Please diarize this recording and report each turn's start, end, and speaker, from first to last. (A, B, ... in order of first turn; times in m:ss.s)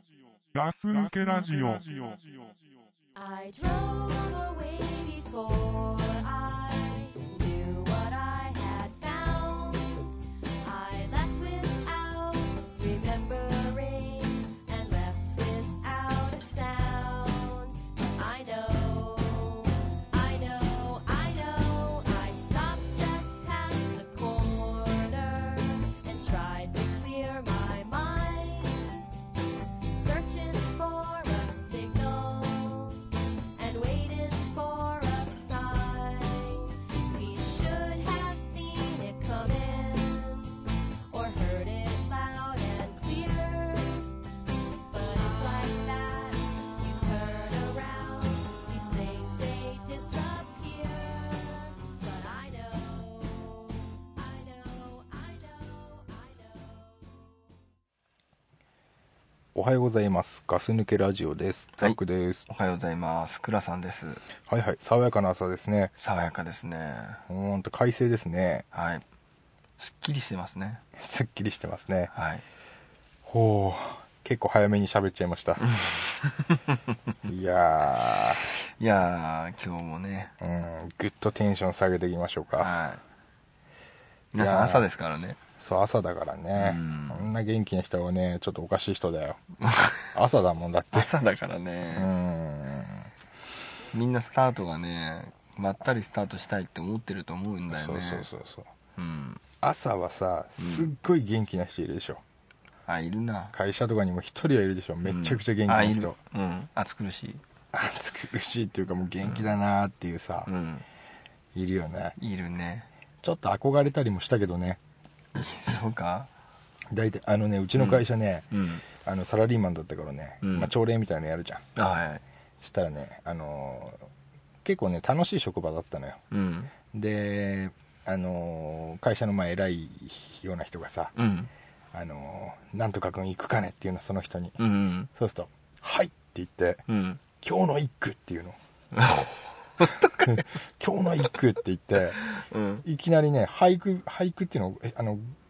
0:00.5-0:02.5 A
0:03.1-0:29.1 B
0:29.9-0:33.0 B
0:33.6-0:44.1 B
0:44.9-0:57.1 B
0:59.5-1:02.5 C
1:01.8-1:04.2 D
1:04.5-1:05.9 C
1:06.0-1:07.2 D
1:07.3-1:08.6 C
1:08.7-1:09.0 D
1:09.8-1:10.8 D
1:11.0-1:12.1 C
1:12.1-1:12.4 D
1:13.2-1:15.7 C
1:15.6-1:16.8 D
1:17.2-1:18.5 C
1:18.8-1:20.3 D
1:20.4-1:22.7 C
1:22.6-1:23.0 D
1:24.3-1:25.4 D
1:24.3-1:24.8 C
1:25.6-1:29.4 C
1:26.6-1:27.3 D
1:29.6-1:30.1 D
1:30.1-1:31.1 C
1:30.9-1:32.1 D
1:31.9-1:33.1 C
1:33.9-1:38.2 D
1:37.7-1:38.7 C
1:39.0-1:39.4 D
1:39.6-1:42.2 C
1:40.6-1:40.9 D
1:42.9-1:43.5 D
1:43.5-1:46.2 C
1:45.0-1:47.4 D
1:47.7-1:50.5 C
1:49.2-1:49.5 D
1:50.5-1:50.8 D
1:51.5-1:52.2 C
1:52.2-1:52.9 D
1:53.2-1:54.8 C
1:55.4-1:56.3 D
1:56.9-2:01.6 C
1:57.8-1:58.8 D
2:00.4-2:00.7 D
2:01.8-2:02.2 D
2:02.6-2:04.0 C
2:04.6-2:06.2 C
2:06.3-2:06.7 D
2:06.9-2:11.1 C
2:11.1-2:11.5 D
2:11.9-2:14.6 C
2:14.6-2:15.1 D
2:15.1-2:16.8 C
2:16.9-2:17.2 D
2:17.4-2:18.6 C
2:18.9-2:20.4 D
2:20.2-2:22.2 C
2:22.3-2:22.8 D
2:22.8-2:25.3 C